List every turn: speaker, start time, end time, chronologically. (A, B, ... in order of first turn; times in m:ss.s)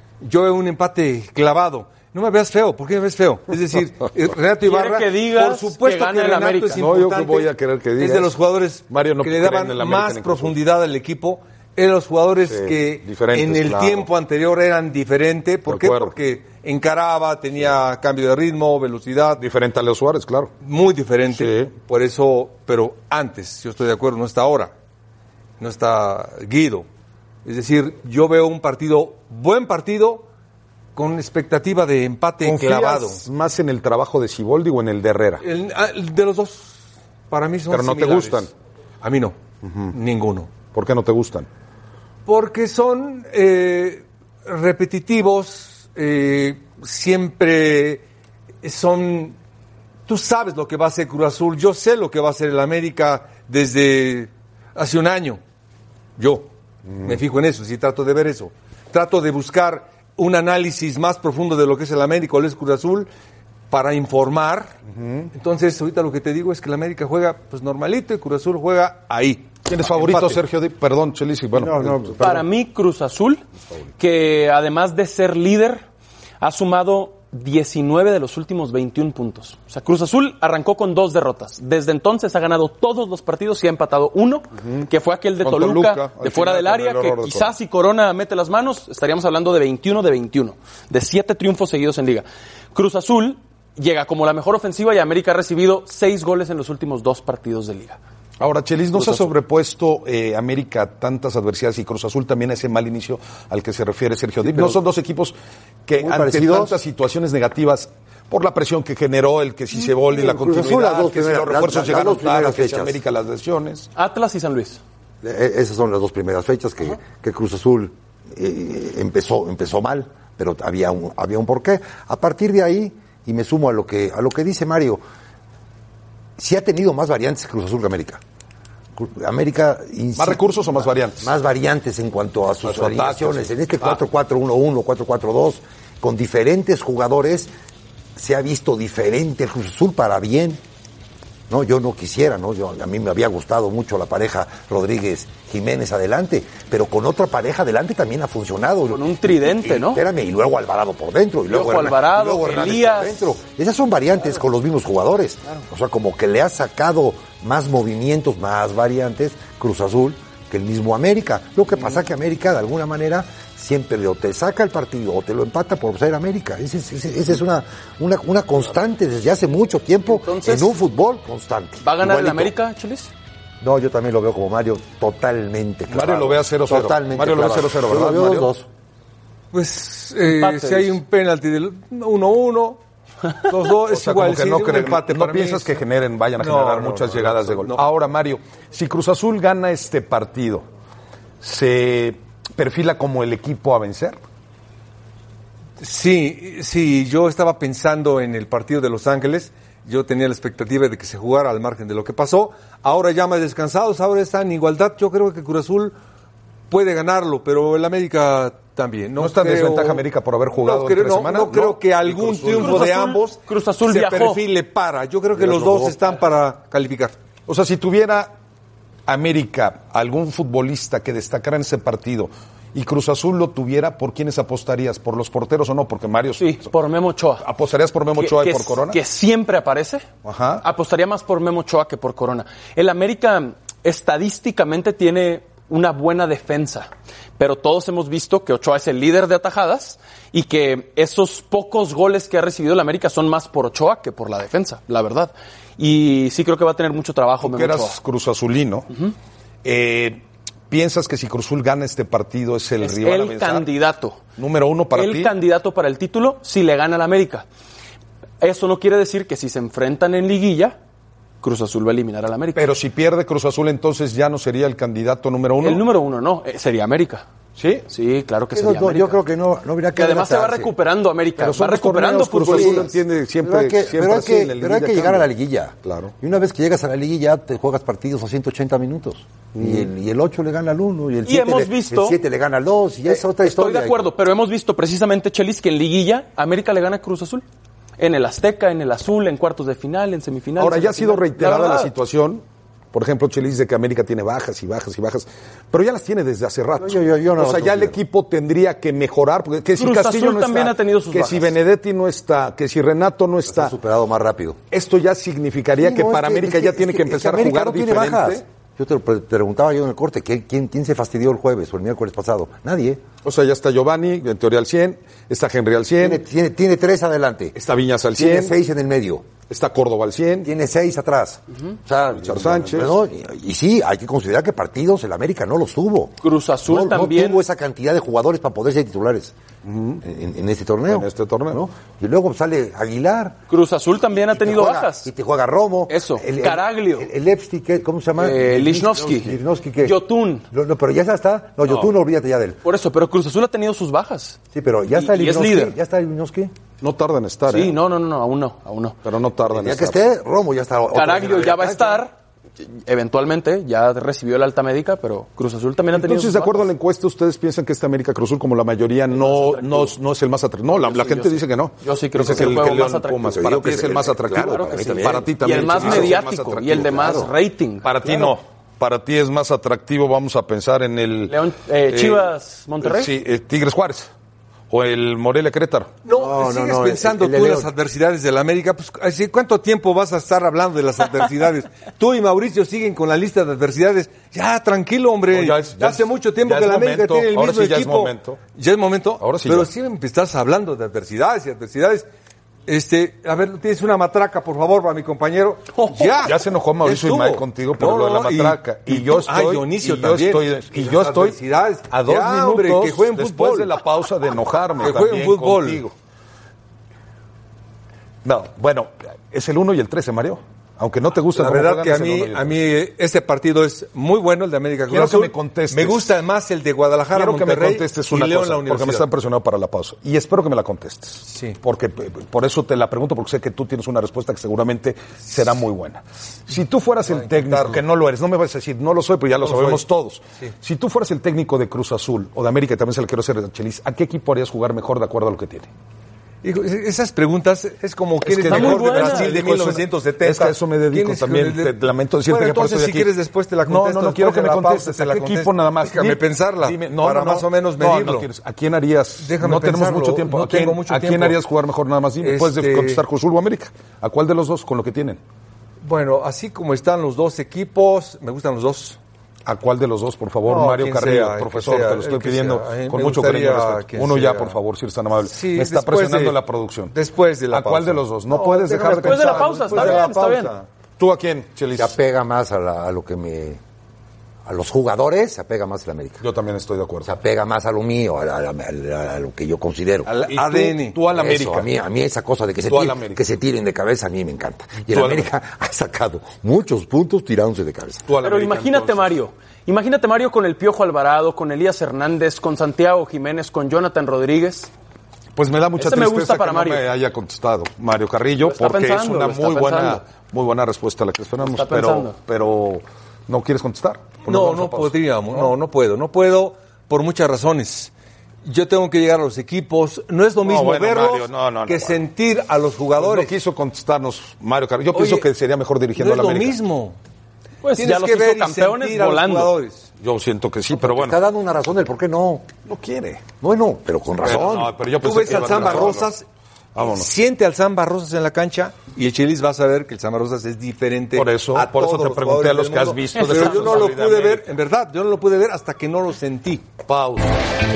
0:00.2-0:19.4 A
0:04.6-0:06.8 B
0:06.8-0:08.4 C
0:08.9-0:10.6 C
0:12.5-0:14.1 C
0:15.7-0:16.2 C
0:19.4-0:20.5 C
0:20.6-0:24.7 A
0:21.3-0:21.7 C
0:25.6-0:26.9 A
0:27.4-0:30.3 A
0:31.0-0:33.2 A
0:32.4-0:35.4 C
0:35.4-0:38.5 A
0:37.7-0:38.5 C
0:39.0-0:39.4 A
0:39.6-0:40.0 C
0:39.9-0:40.5 A
0:40.7-0:41.5 C
0:42.3-0:48.0 A
0:48.6-0:49.4 A
0:50.1-0:55.4 A
0:56.2-0:56.5 A
0:57.0-1:03.1 A
1:03.7-1:04.8 A
1:04.9-1:05.3 C
1:05.3-1:10.4 A
1:09.7-1:12.4 C
1:11.6-1:12.4 D
1:12.2-1:13.4 B
1:14.0-1:15.8 B
1:16.4-1:38.0 B
1:24.6-1:24.9 C
1:25.4-1:27.5 C
1:38.4-1:53.9 C
1:44.5-1:44.8 D
1:46.0-1:46.8 D
1:49.8-1:53.0 D
1:54.0-1:54.8 B
1:55.2-2:05.0 D
2:06.4-2:08.2 D
2:09.0-2:17.5 D
2:10.2-2:11.3 C
2:12.6-2:14.0 C
2:18.2-2:20.6 D
2:21.5-2:52.5 D
2:28.9-2:30.0 B
2:31.5-2:33.3 B
2:50.1-2:50.8 B
2:51.8-2:53.1 B
2:53.6-2:58.7 D
2:55.9-2:58.5 C
2:59.5-3:02.8 A
3:00.2-3:01.0 B
3:03.5-3:05.7 A
3:03.9-3:10.6 C
3:06.4-3:07.8 A
3:11.4-3:14.2 C
3:15.8-3:26.0 A
3:26.7-3:30.0 A
3:29.2-3:32.9 C
3:30.6-3:37.2 A
3:32.5-3:34.4 B
3:35.4-3:35.9 D
3:37.5-3:38.3 C
3:39.1-3:46.7 C
3:46.4-3:47.4 B
3:47.4-3:49.0 C
3:48.2-3:50.1 B
3:50.2-3:50.6 C
3:50.6-4:08.0 B
4:07.4-4:08.9 C
4:09.6-4:13.7 C
4:12.8-4:14.2 B
4:14.4-4:15.3 C
4:15.0-4:17.4 B
4:18.4-4:20.8 B
4:21.4-4:22.7 B
4:22.6-4:25.8 C
4:25.6-4:27.2 B
4:27.6-4:27.8 C
4:27.9-4:29.2 B
4:28.5-4:30.7 D
4:30.0-4:32.9 B
4:31.4-4:35.3 C
4:32.4-4:44.1 D
4:35.8-4:36.1 C
4:39.6-4:39.9 C
4:41.2-4:42.2 B
4:43.1-4:47.4 B
4:48.0-4:51.9 B
4:50.6-5:03.8 C
4:56.8-4:58.0 D
4:59.8-5:01.6 B
5:03.5-5:04.6 D
5:04.7-5:08.4 C
5:05.8-5:13.0 D
5:13.2-5:16.2 C
5:16.0-5:17.6 D
5:17.6-5:18.6 C
5:18.1-5:19.3 D
5:19.5-5:20.5 C
5:20.4-5:29.3 D
5:22.1-5:23.0 C
5:26.2-5:27.4 B
5:29.6-5:30.0 C
5:30.0-5:33.4 D
5:30.9-5:31.6 C
5:33.5-5:35.1 B
5:34.1-5:40.0 D
5:35.9-5:37.1 B
5:38.2-5:40.4 B
5:40.5-5:42.6 D
5:41.6-5:41.9 C
5:42.6-5:44.4 B
5:44.5-5:46.5 D
5:44.9-5:45.8 B
5:46.8-5:47.8 C
5:47.5-5:49.0 B
5:49.0-5:50.0 C
5:49.4-5:52.1 D
5:50.9-5:52.1 B
5:52.8-5:56.7 B
5:55.9-6:07.2 C
5:59.2-5:59.9 B
6:00.9-6:03.6 B
6:02.4-6:02.7 D
6:03.2-6:06.2 D
6:04.4-6:08.3 B
6:06.9-6:07.3 D
6:07.8-6:11.4 C
6:11.3-6:13.2 B
6:11.9-6:12.3 C
6:12.8-6:14.1 C
6:14.7-6:15.9 C
6:16.0-6:32.1 A
6:16.1-6:17.7 D
6:25.3-6:28.4 C
6:29.2-6:29.7 C
6:32.7-6:43.8 A
6:35.7-6:36.3 B
6:36.2-6:45.9 C
6:44.8-6:45.8 A
6:48.2-6:52.5 C
6:51.4-6:59.1 A
6:54.9-6:56.1 C
6:57.1-7:15.7 C
7:01.2-7:01.6 A
7:07.0-7:07.8 A
7:09.4-7:09.8 A
7:16.4-7:28.3 A
7:18.2-7:23.1 C
7:18.4-7:19.4 B
7:23.7-7:35.2 C
7:29.2-7:31.4 A
7:32.2-7:33.0 A
7:35.8-7:39.0 A
7:39.5-7:46.9 C
7:40.5-7:44.6 A
7:45.2-7:46.4 A
7:46.9-7:50.6 A
7:47.5-7:50.2 C
7:48.9-7:50.5 B
7:51.0-7:52.0 C
7:51.8-7:53.6 D
7:54.5-7:56.2 D
7:56.2-7:57.1 C
7:57.0-8:00.1 D
8:00.1-8:01.7 C
8:00.2-8:01.0 A
8:01.1-8:08.1 D
8:02.7-8:03.2 C
8:04.9-8:05.3 C
8:08.1-8:09.1 C
8:08.2-8:14.7 B
8:15.4-8:25.6 C
8:15.8-8:16.8 B
8:18.4-8:20.0 B
8:21.4-8:22.2 B
8:24.2-8:27.9 A
8:28.5-8:33.3 A
8:30.4-8:32.0 C
8:33.0-8:36.6 C
8:34.9-8:35.3 A
8:36.0-8:37.0 A
8:37.6-8:39.6 B
8:37.8-8:39.9 A
8:40.0-8:41.2 C
8:40.7-8:42.5 D
8:42.6-8:43.2 C
8:43.4-8:46.0 D
8:44.2-8:46.1 C
8:45.0-8:46.3 A
8:46.8-8:47.1 C
8:46.8-8:56.6 A
8:51.1-8:54.5 C
8:53.2-8:53.7 B
8:56.9-8:57.3 C